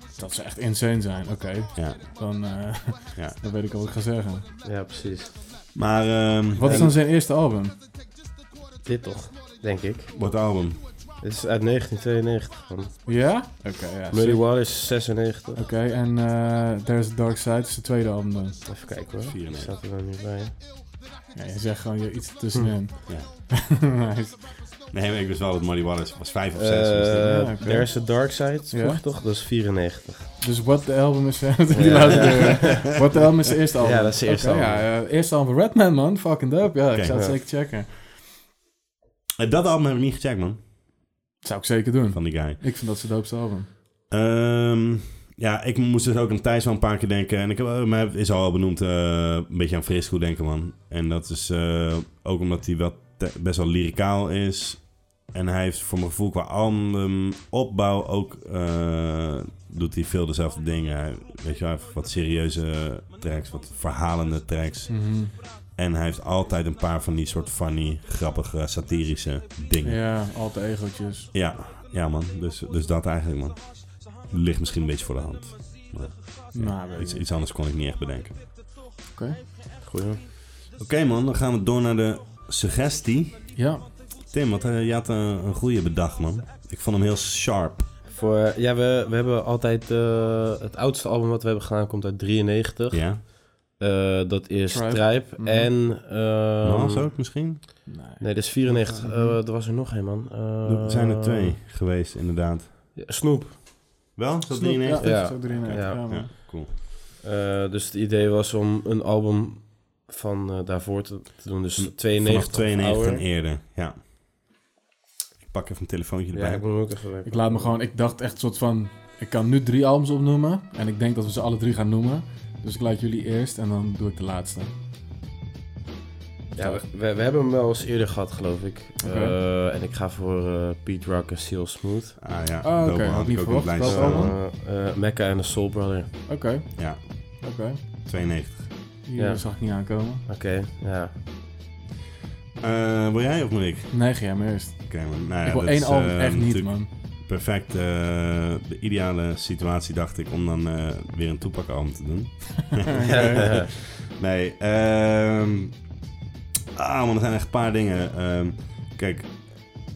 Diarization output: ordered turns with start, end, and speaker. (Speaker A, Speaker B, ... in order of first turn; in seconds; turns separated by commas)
Speaker A: 0.1-4.5, Speaker B: 1.7-2.0, Speaker C: 4.6-5.3, Speaker B: 5.7-6.9, Speaker A: 6.5-7.8, Speaker C: 6.6-6.9, Speaker C: 8.8-10.1, Speaker B: 10.1-10.8, Speaker C: 11.2-13.0, Speaker A: 13.1-14.6, Speaker C: 14.1-15.6, Speaker A: 15.6-18.6, Speaker C: 18.6-20.6, Speaker B: 19.2-19.7, Speaker A: 21.3-24.6, Speaker B: 24.9-27.4, Speaker C: 26.6-30.3, Speaker A: 27.3-27.9, Speaker A: 28.7-29.0, Speaker A: 30.4-38.1, Speaker C: 31.7-32.9, Speaker B: 32.2-32.8, Speaker C: 33.8-34.9, Speaker B: 36.9-37.3, Speaker C: 37.1-37.4, Speaker B: 39.4-40.6, Speaker A: 41.4-43.7, Speaker B: 42.1-42.6, Speaker B: 44.1-70.0, Speaker A: 64.9-65.3, Speaker A: 69.8-71.3, Speaker B: 71.3-78.4, Speaker A: 76.5-77.2, Speaker A: 79.1-79.4, Speaker C: 79.8-80.2, Speaker B: 80.8-83.6, Speaker A: 83.5-83.9, Speaker B: 84.3-87.9, Speaker C: 88.0-97.1, Speaker B: 92.9-93.2, Speaker A: 94.7-95.7, Speaker B: 96.6-97.7, Speaker A: 97.8-99.4, Speaker C: 98.2-101.6, Speaker B: 100.6-102.7, Speaker C: 102.9-103.8, Speaker B: 104.2-106.8, Speaker A: 104.5-106.3, Speaker C: 105.0-113.2, Speaker B: 111.8-114.0, Speaker B: 115.4-116.7, Speaker C: 116.3-117.8, Speaker A: 117.2-124.7, Speaker C: 126.5-132.2, Speaker A: 126.6-126.8, Speaker A: 129.0-129.3, Speaker B: 132.2-134.3, Speaker A: 132.6-134.3, Speaker C: 133.8-136.1, Speaker A: 136.3-138.3, Speaker B: 136.7-137.4, Speaker B: 138.0-138.7, Speaker A: 139.0-140.2, Speaker C: 139.2-141.1, Speaker B: 142.6-155.8, Speaker A: 143.9-146.9, Speaker A: 152.9-153.4, Speaker C: 153.0-153.7, Speaker B: 156.8-159.8